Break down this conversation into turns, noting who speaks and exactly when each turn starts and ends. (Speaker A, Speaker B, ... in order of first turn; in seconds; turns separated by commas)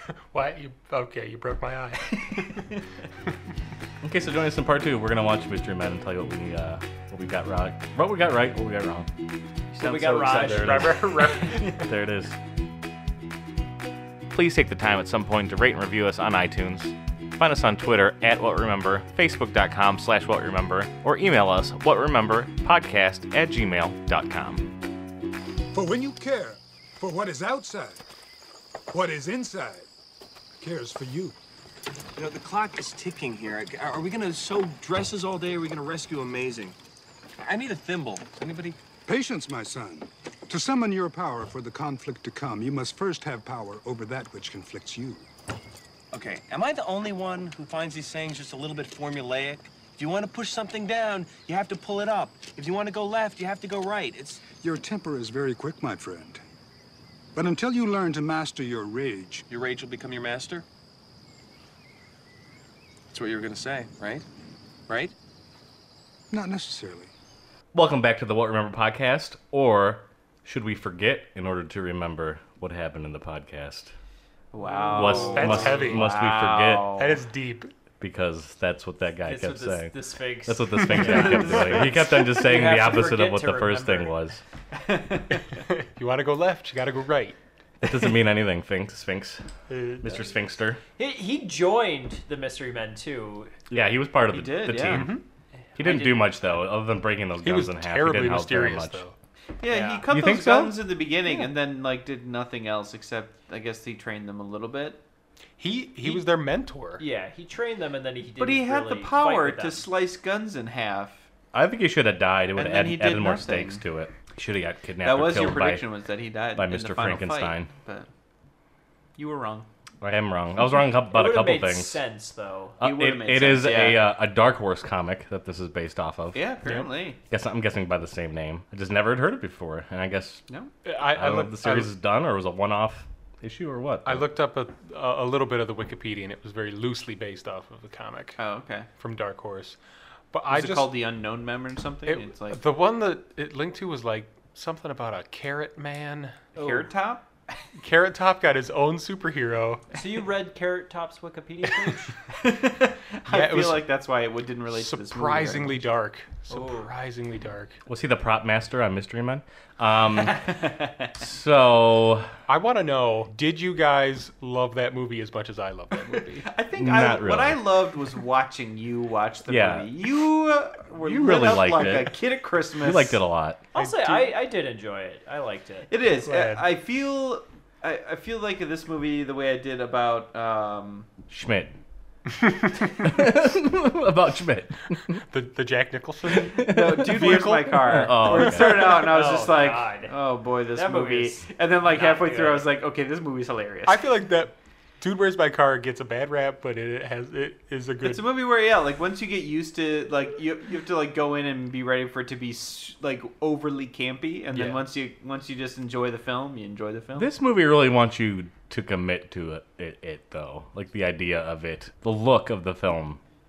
Speaker A: 0.3-2.5, Speaker B: 4.0-9.1, Speaker B: 9.7-12.4, Speaker C: 9.8-11.3, Speaker A: 10.2-11.8, Speaker B: 14.3-24.7, Speaker D: 25.7-28.0, Speaker D: 28.9-29.9, Speaker D: 30.6-31.4, Speaker E: 32.1-36.8, Speaker E: 37.4-38.8, Speaker D: 39.0-45.3, Speaker E: 46.1-54.5, Speaker D: 54.4-56.4, Speaker D: 57.3-59.5, Speaker E: 59.5-60.6, Speaker E: 63.1-64.2, Speaker E: 64.9-65.1, Speaker D: 66.3-67.1, Speaker B: 67.7-73.9, Speaker F: 74.5-77.2, Speaker B: 74.9-76.9, Speaker C: 75.0-75.5, Speaker A: 75.2-76.1, Speaker A: 77.0-77.7, Speaker B: 78.0-84.4, Speaker C: 79.2-84.1, Speaker A: 80.9-81.8, Speaker F: 84.7-85.4, Speaker A: 85.5-87.4, Speaker B: 87.8-89.4, Speaker A: 89.7-90.2, Speaker B: 90.0-90.8, Speaker C: 91.0-93.5, Speaker B: 93.7-95.2, Speaker F: 94.3-95.1, Speaker A: 94.8-95.2, Speaker B: 95.8-99.0, Speaker C: 95.8-96.3, Speaker A: 97.4-99.1, Speaker F: 99.6-105.0, Speaker C: 99.7-100.0, Speaker B: 100.1-100.8, Speaker A: 105.6-107.0, Speaker C: 107.0-109.9, Speaker F: 108.4-111.2, Speaker B: 111.5-115.8, Speaker F: 112.5-113.8, Speaker F: 115.0-118.1, Speaker B: 116.5-117.7, Speaker F: 119.2-119.7, Speaker B: 120.0-122.0, Speaker C: 121.1-122.8, Speaker B: 122.8-126.4, Speaker F: 122.8-124.0, Speaker F: 126.3-127.2, Speaker B: 127.3-130.4, Speaker A: 130.8-131.9, Speaker B: 131.0-134.3, Speaker A: 134.0-138.4, Speaker F: 138.4-138.9, Speaker A: 139.0-139.8, Speaker A: 140.3-140.9, Speaker F: 140.5-142.6, Speaker A: 142.1-146.4, Speaker F: 146.5-147.3, Speaker C: 146.6-146.8, Speaker A: 147.8-149.9, Speaker C: 149.9-152.1, Speaker F: 152.3-155.8, Speaker A: 153.3-153.9, Speaker A: 154.7-157.8, Speaker C: 156.5-156.9, Speaker B: 157.9-160.6, Speaker F: 160.3-161.1, Speaker B: 161.2-162.3, Speaker A: 162.5-166.5, Speaker F: 166.4-173.2, Speaker B: 166.8-167.6, Speaker B: 169.5-169.9, Speaker B: 171.0-173.6, Speaker C: 173.7-175.9, Speaker A: 173.8-174.3, Speaker F: 175.9-181.1, Speaker A: 176.2-176.7, Speaker B: 181.3-181.7, Speaker B: 183.0-185.2, Speaker A: 185.2-189.0, Speaker B: 186.3-188.9, Speaker F: 186.6-194.0, Speaker C: 188.7-190.2, Speaker C: 190.7-192.7, Speaker A: 193.8-198.2, Speaker F: 198.0-207.3, Speaker A: 204.5-204.8, Speaker B: 207.2-213.2